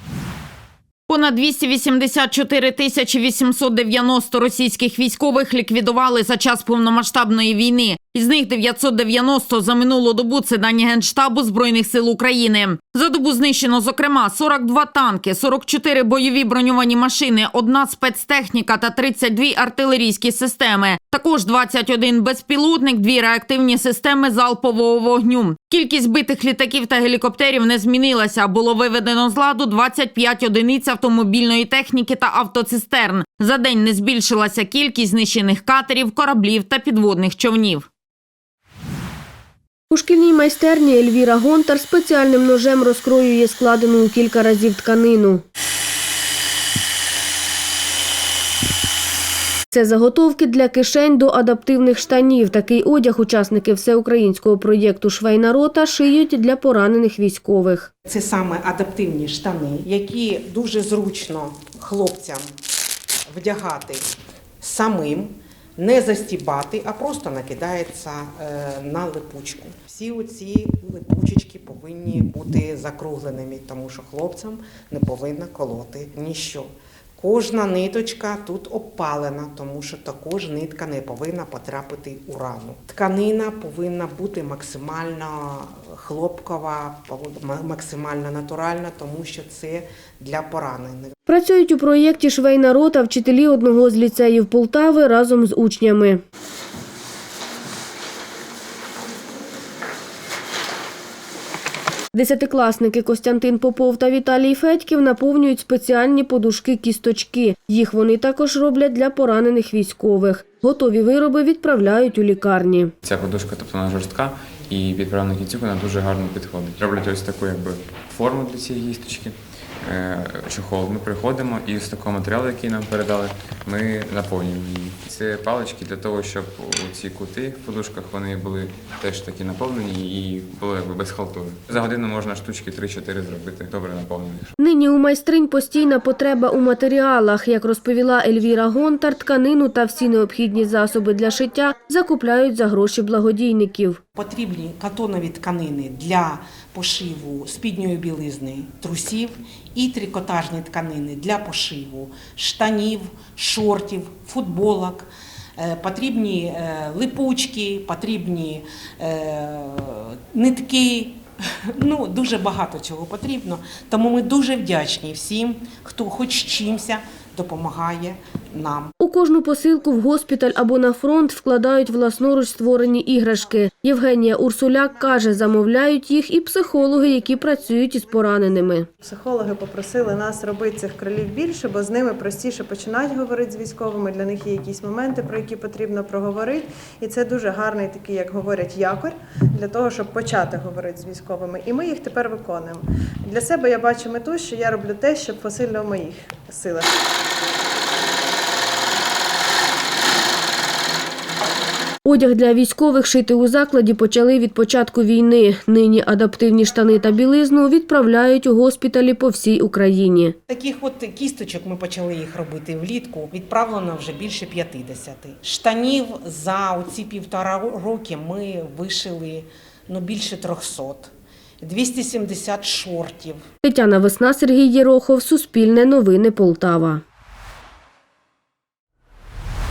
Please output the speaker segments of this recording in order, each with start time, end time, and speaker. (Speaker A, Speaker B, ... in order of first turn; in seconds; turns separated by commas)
Speaker A: 1.1-37.9, Speaker B: 39.9-45.4, Speaker B: 49.7-57.9, Speaker C: 58.1-62.5, Speaker C: 63.3-64.1, Speaker C: 64.6-91.1, Speaker B: 91.3-96.2, Speaker B: 102.1-112.9, Speaker D: 113.0-134.5, Speaker B: 134.6-144.0, Speaker C: 144.2-161.2, Speaker C: 161.8-168.9, Speaker B: 169.0-178.9, Speaker E: 179.0-196.9, Speaker B: 202.1-210.3, Speaker C: 210.5-223.4, Speaker B: 223.6-227.0